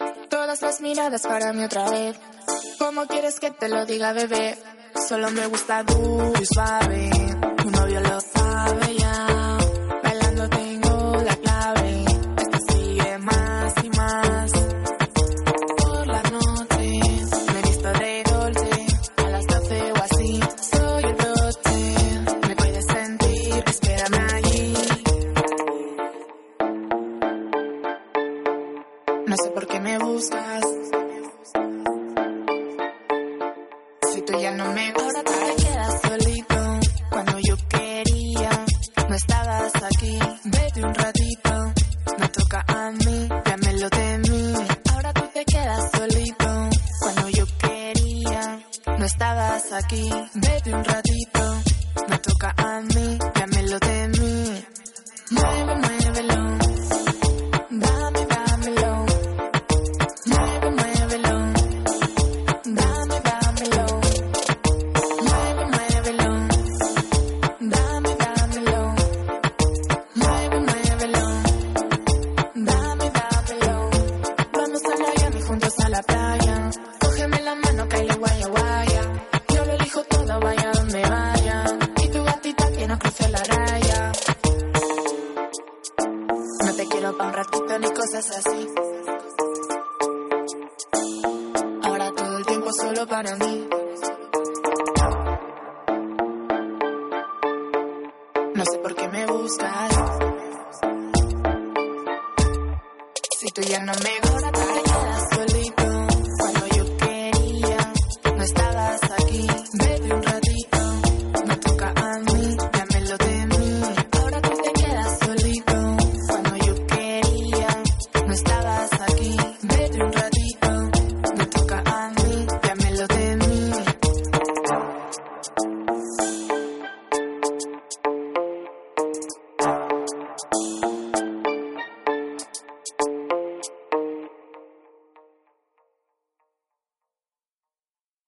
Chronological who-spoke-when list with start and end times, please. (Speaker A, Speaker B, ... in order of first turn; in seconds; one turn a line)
Speaker A: 0.3-2.2
Speaker A: 2.8-14.7
Speaker A: 15.8-25.1
Speaker A: 29.2-30.9
Speaker A: 34.0-54.7
Speaker A: 55.3-56.9
Speaker A: 57.7-59.3
Speaker A: 60.2-61.8
Speaker A: 62.6-64.3
Speaker A: 65.2-66.8
Speaker A: 67.6-69.1
Speaker A: 70.1-71.7
Speaker A: 72.5-84.2
Speaker A: 86.6-88.7
Speaker A: 91.8-93.8
Speaker A: 98.5-100.3
Speaker A: 103.3-124.0